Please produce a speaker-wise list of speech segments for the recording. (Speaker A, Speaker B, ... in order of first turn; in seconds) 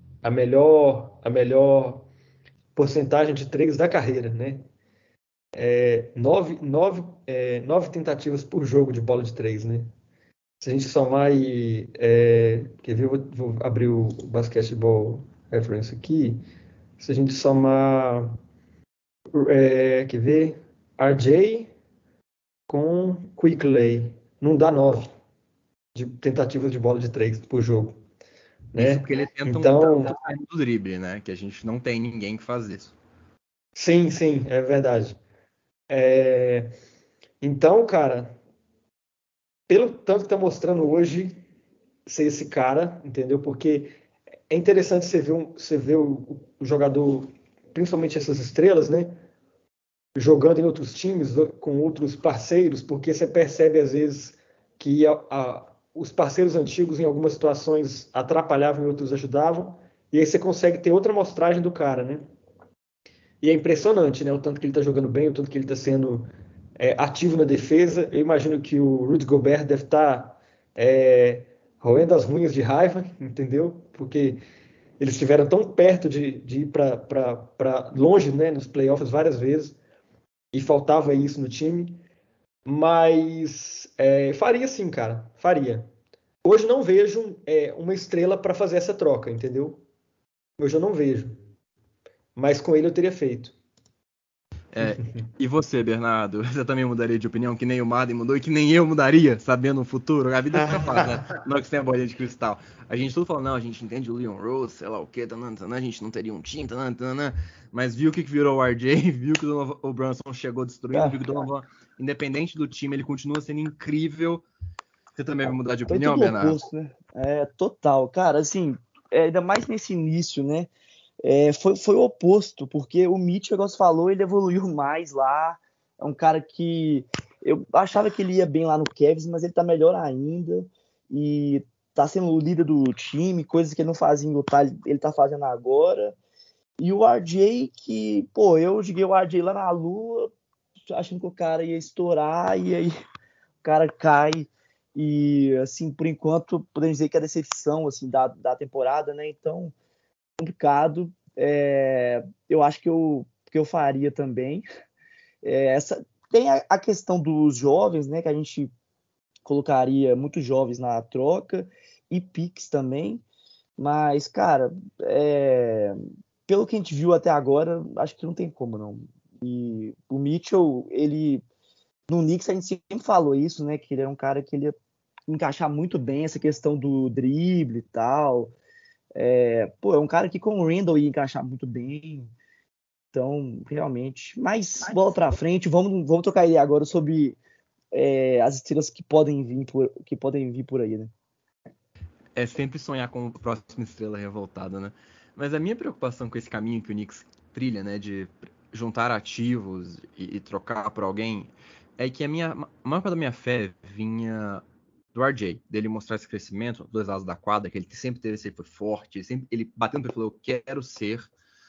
Speaker A: 0.2-2.1, 2.7-4.7, 5.5-9.9, 10.6-16.4, 17.0-18.4, 19.3-21.7, 22.7-25.1, 25.9-28.0, 28.7-30.1, 33.8-35.2, 35.9-36.7, 37.4-38.4, 39.7-41.4, 42.0-43.9, 44.5-49.2, 50.1-62.2, 63.4-74.4, 75.0-79.8, 80.5-82.0, 82.6-85.9, 86.4-89.8, 90.6-91.4, 92.3-93.5, 100.5-101.2
Speaker B: 28.8-33.0, 94.7-114.4, 115.2-116.6, 192.3-204.6, 205.1-211.3
Speaker C: 110.9-111.2, 115.9-120.7, 121.2-136.2, 136.8-140.3, 140.9-142.9, 143.6-149.7, 150.4-154.6, 155.4-158.7, 159.4-163.2, 163.8-171.4, 172.1-174.7, 175.3-178.6, 179.2-182.3, 183.1-187.4, 187.9-191.1